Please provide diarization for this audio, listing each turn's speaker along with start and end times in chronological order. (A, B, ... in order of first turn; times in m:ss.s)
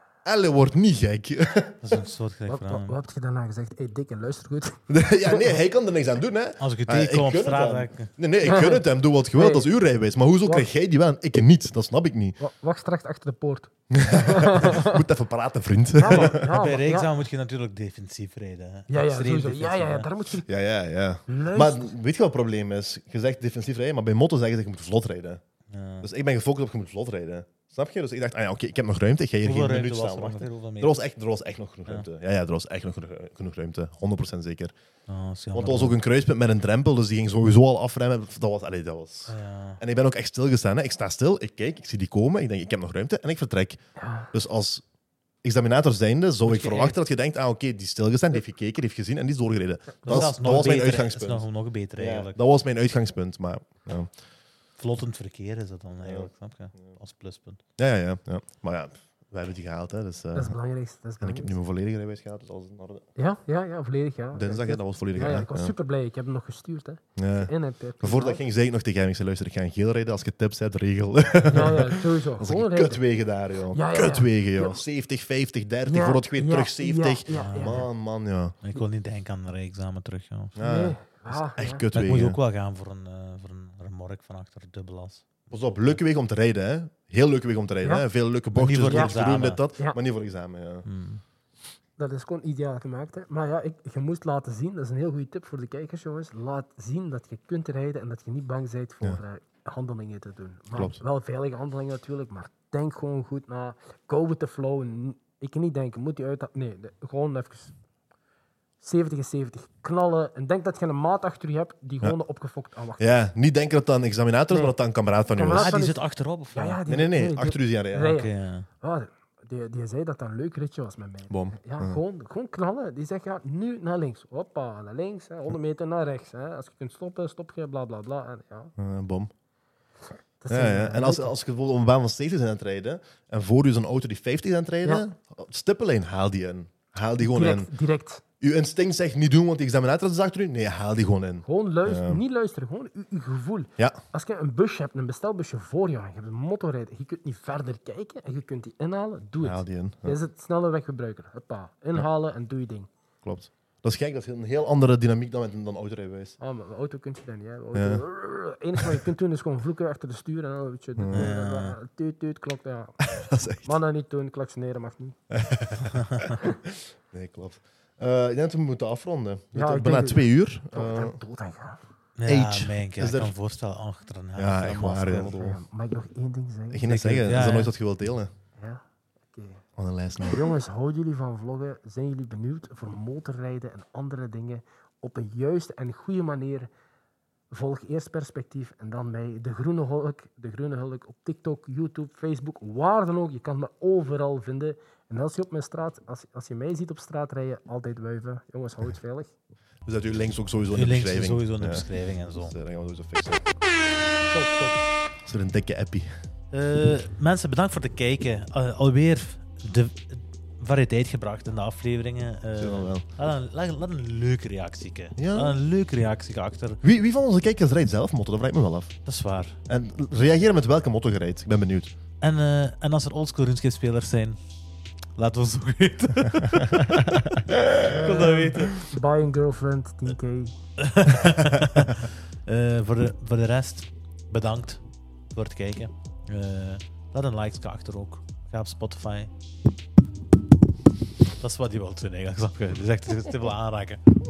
0:00.2-0:02.0 A
0:01.8-0:03.0 B
0:02.5-0:05.5 C
0:04.9-0:12.4 A
0:06.6-0:08.1 B
0:08.4-0:09.6 C
0:12.4-0:15.0 C
0:13.9-0:16.4 A
0:16.0-0:17.1 C
0:16.1-0:20.1 B
0:18.9-0:20.5 C
0:20.5-0:25.4 A
0:21.3-0:21.9 C
0:25.7-0:26.1 B
0:26.0-0:34.7 A
0:29.4-0:31.0 B
0:35.1-0:36.0 B
0:35.5-0:43.8 A
0:39.3-0:39.8 B
0:44.0-0:44.3 C
0:44.3-0:44.8 A
0:45.4-0:51.4 A
0:46.4-0:47.0 B
0:50.0-0:52.3 B
0:52.0-0:54.1 A
0:54.8-0:57.6 B
0:56.0-0:56.3 A
0:57.8-1:00.6 A
1:00.3-1:01.5 C
1:01.2-1:03.1 A
1:03.2-1:08.4 C
1:04.3-1:05.7 A
1:07.2-1:18.6 A
1:11.5-1:13.0 C
1:13.7-1:14.8 C
1:15.8-1:17.9 C
1:17.3-1:17.8 B
1:18.6-1:20.6 B
1:20.6-1:22.4 A
1:20.6-1:21.8 C
1:21.9-1:26.0 B
1:25.5-1:30.8 A
1:28.5-1:29.6 B
1:28.9-1:29.1 C
1:30.8-1:31.2 B
1:32.0-1:47.7 C
1:40.7-1:41.0 A
1:48.8-1:53.1 C
1:53.0-1:55.8 A
1:54.5-1:54.7 C
1:55.3-1:56.0 C
1:55.5-1:56.8 B
1:56.5-2:08.7 C
1:56.8-1:58.2 A
1:58.0-1:58.7 B
2:01.3-2:02.0 A
2:08.8-2:09.3 A
2:10.4-2:11.3 C
2:10.5-2:17.7 A
2:17.2-2:18.2 C
2:18.4-2:22.2 A
2:21.4-2:32.9 C
2:29.4-2:30.2 A
2:33.2-2:36.4 A
2:36.4-2:43.0 C
2:37.7-2:38.0 A
2:38.8-2:39.0 A
2:41.0-2:41.3 A
2:41.1-2:41.8 B
2:43.0-2:43.7 A
2:43.6-2:45.2 C
2:45.3-2:51.2 A
2:46.0-2:46.3 B
2:49.5-2:51.8 C
2:52.2-2:55.3 B
2:52.3-2:53.3 A
2:54.4-2:55.6 A
2:55.1-2:57.3 C
2:56.7-2:58.3 A
2:57.2-2:57.7 B
2:58.6-2:59.6 C
2:59.8-3:00.5 A
3:00.2-3:06.7 C
3:07.5-3:19.3 C
3:19.8-3:21.9 A
3:20.7-3:22.5 B
3:22.4-3:23.4 A
3:24.3-3:24.8 C
3:25.2-3:26.1 A
3:26.5-3:36.8 B
3:32.6-3:33.0 A
3:35.2-3:35.6 A
3:36.8-3:38.9 A
3:39.0-3:39.6 B
3:39.7-3:41.9 A
3:42.2-3:44.4 B
3:45.2-3:48.8 B
3:47.5-3:47.9 A
3:47.8-3:50.6 C
3:50.8-3:59.3 B
4:01.4-4:04.0 B